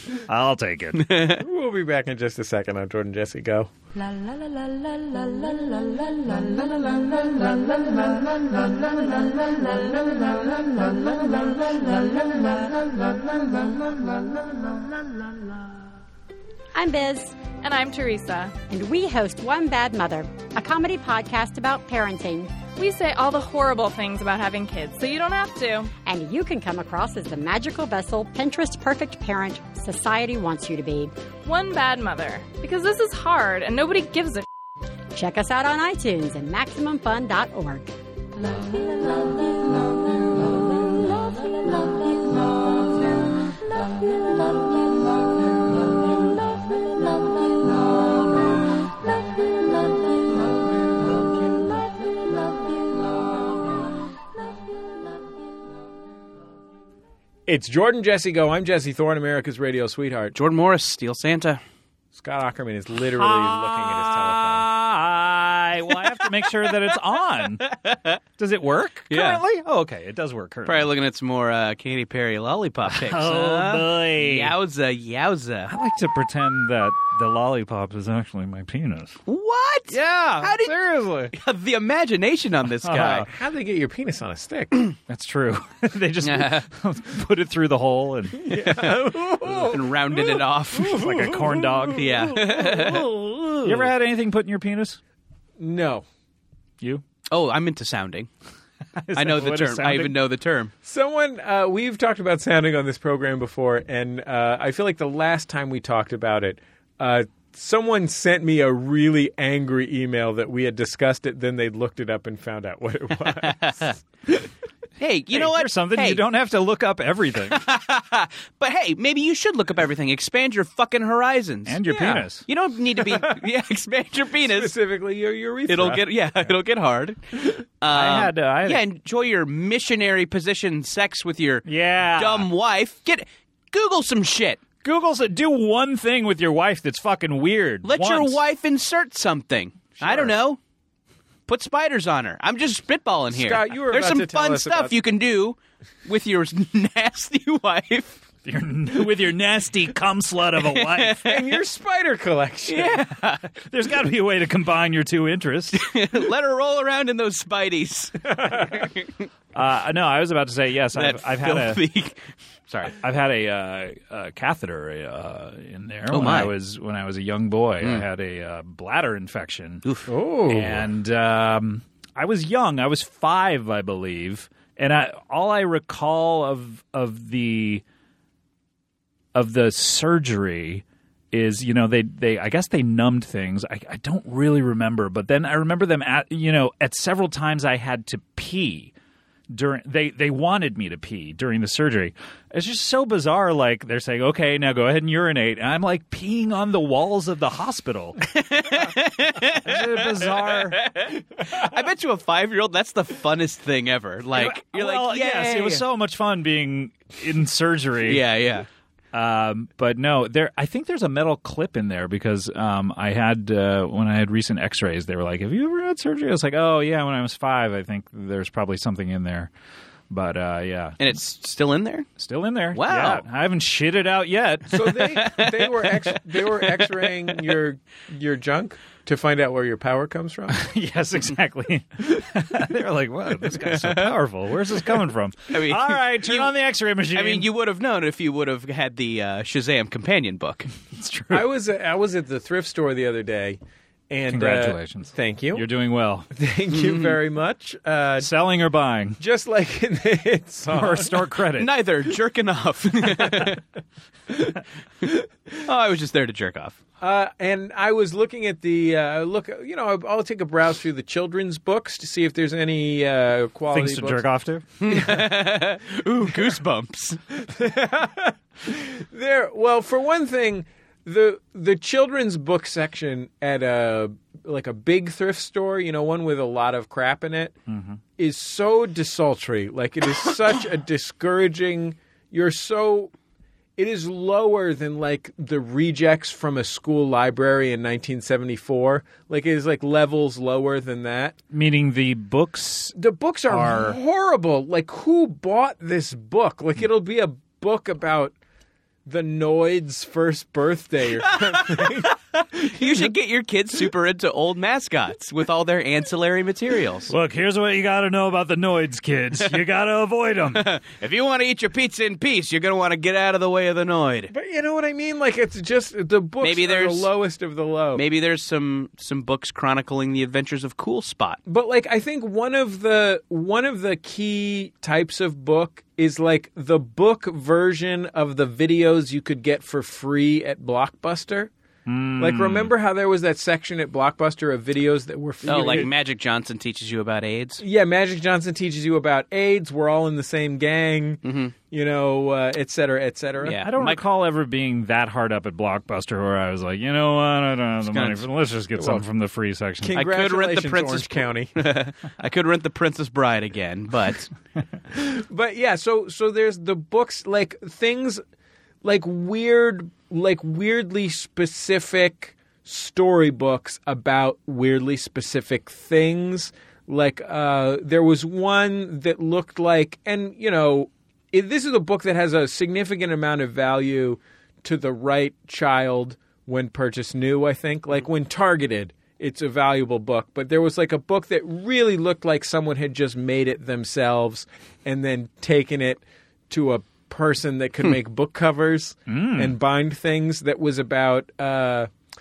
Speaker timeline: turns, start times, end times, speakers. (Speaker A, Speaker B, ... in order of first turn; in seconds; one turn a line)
Speaker A: 0.3-1.1
Speaker B: 0.9-1.4
Speaker C: 1.4-3.7
Speaker D: 4.0-14.9
Speaker E: 16.7-17.4
Speaker F: 17.6-18.6
Speaker E: 18.7-22.6
Speaker F: 22.8-25.9
Speaker E: 26.1-31.1
Speaker F: 31.4-34.5
Speaker E: 35.1-37.9
Speaker D: 38.3-53.8
Speaker C: 57.5-60.4
Speaker B: 60.3-61.6
Speaker C: 62.1-64.7
Speaker A: 63.1-67.7
Speaker B: 66.4-66.7
Speaker B: 67.6-68.2
Speaker A: 68.4-70.9
Speaker B: 69.1-69.4
Speaker B: 70.7-75.7
Speaker A: 72.9-74.5
Speaker A: 75.7-79.2
Speaker B: 79.3-80.7
Speaker A: 79.9-81.1
Speaker C: 80.8-81.3
Speaker B: 81.3-83.3
Speaker A: 82.8-83.3
Speaker C: 83.0-84.8
Speaker A: 85.1-88.5
Speaker B: 86.2-86.7
Speaker C: 88.4-93.8
Speaker B: 88.5-91.0
Speaker A: 90.9-92.8
Speaker B: 91.9-93.1
Speaker A: 93.6-95.0
Speaker C: 95.6-96.0
Speaker B: 97.3-98.3
Speaker A: 99.0-100.2
Speaker B: 99.2-100.7
Speaker C: 100.8-113.9
Speaker B: 113.4-113.9
Speaker B: 115.0-116.2
Speaker A: 115.3-117.6
Speaker B: 117.5-124.7
Speaker A: 121.7-122.5
Speaker C: 121.9-122.2
Speaker C: 123.1-123.4
Speaker C: 124.4-126.1
Speaker B: 125.7-127.2
Speaker B: 127.8-134.6
Speaker A: 127.9-128.8
Speaker A: 131.7-132.5
Speaker A: 134.8-138.4
Speaker B: 137.8-140.6
Speaker C: 140.0-140.3
Speaker B: 141.5-148.2
Speaker C: 143.3-145.0
Speaker A: 148.4-151.3
Speaker B: 150.7-151.5
Speaker C: 151.2-153.0
Speaker B: 152.7-153.5
Speaker A: 153.6-155.8
Speaker B: 155.7-159.1
Speaker A: 159.5-161.8
Speaker B: 160.9-162.9
Speaker A: 163.0-169.8
Speaker B: 166.1-166.5
Speaker C: 170.1-170.8
Speaker A: 170.5-177.8
Speaker A: 179.3-188.9
Speaker A: 189.5-198.2
Speaker B: 198.3-205.8
Speaker A: 199.6-200.8
Speaker A: 204.3-208.2
Speaker B: 208.1-208.7
Speaker A: 209.1-219.5
Speaker A: 220.1-221.2
Speaker B: 221.0-222.1
Speaker A: 222.2-225.2
Speaker B: 222.7-223.2
Speaker C: 224.7-230.6
Speaker B: 224.8-227.0
Speaker A: 230.5-237.5
Speaker B: 233.8-234.1
Speaker B: 235.5-236.5
Speaker B: 237.1-240.7
Speaker A: 240.9-241.5
Speaker C: 241.3-243.6
Speaker C: 244.1-245.7
Speaker A: 244.3-246.3
Speaker C: 246.3-248.3
Speaker B: 246.7-247.2
Speaker A: 248.2-249.2
Speaker C: 249.2-251.3
Speaker A: 250.7-251.7
Speaker B: 251.6-253.6
Speaker C: 254.3-255.2
Speaker B: 255.6-256.8
Speaker C: 257.0-264.2
Speaker A: 263.7-264.7
Speaker B: 264.8-267.2
Speaker C: 264.9-265.3
Speaker C: 267.4-277.6
Speaker A: 277.7-278.0
Speaker C: 278.2-283.1
Speaker C: 283.8-291.4
Speaker A: 291.5-293.0
Speaker C: 293.0-298.3
Speaker A: 293.5-294.0
Speaker C: 299.1-303.1
Speaker B: 301.3-301.9
Speaker B: 302.7-307.1
Speaker A: 307.1-310.7
Speaker B: 310.6-314.3
Speaker C: 314.3-318.0
Speaker B: 316.4-317.1
Speaker B: 317.9-321.4
Speaker C: 321.5-331.5
Speaker A: 331.9-332.7
Speaker C: 332.2-335.9
Speaker B: 335.4-337.6
Speaker A: 335.5-335.9
Speaker C: 337.6-343.6
Speaker B: 341.2-341.5
Speaker B: 343.4-344.0
Speaker A: 343.6-350.0
Speaker B: 347.8-348.2
Speaker C: 348.8-349.1
Speaker C: 349.8-351.5
Speaker B: 349.9-354.3
Speaker C: 354.9-358.2
Speaker C: 358.8-391.9
Speaker A: 389.1-389.6